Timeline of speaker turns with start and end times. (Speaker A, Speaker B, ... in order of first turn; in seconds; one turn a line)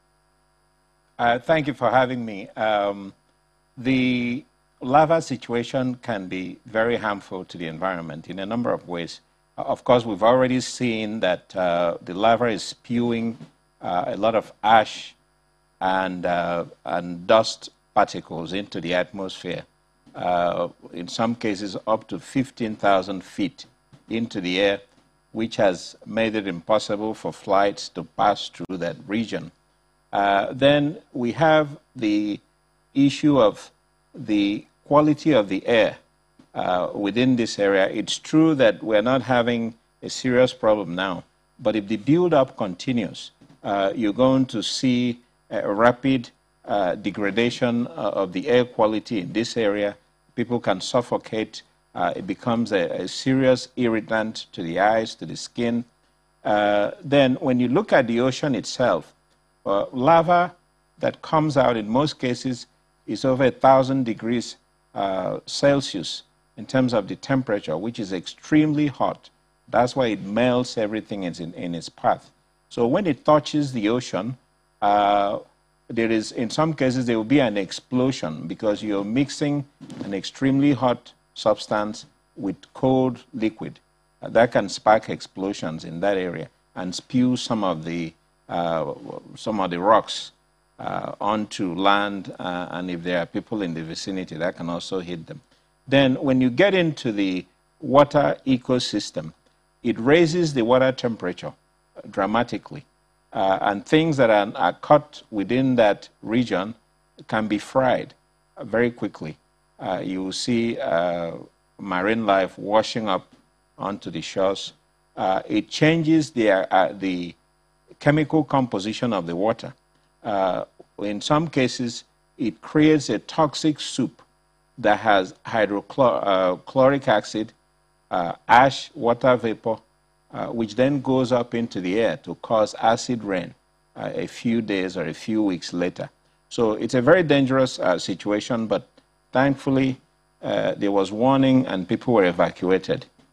Speaker A: 1.2-3.1
Speaker A: 3.8-15.2
Speaker A: 15.8-24.8
Speaker A: 25.3-29.5
Speaker A: 30.1-32.4
Speaker A: 32.9-36.0
Speaker A: 36.5-55.9
Speaker A: 56.4-59.1
Speaker A: 59.6-101.6
Speaker A: 102.1-117.4
Speaker A: 118.0-124.2
Speaker A: 124.8-127.5
Speaker A: 128.1-143.1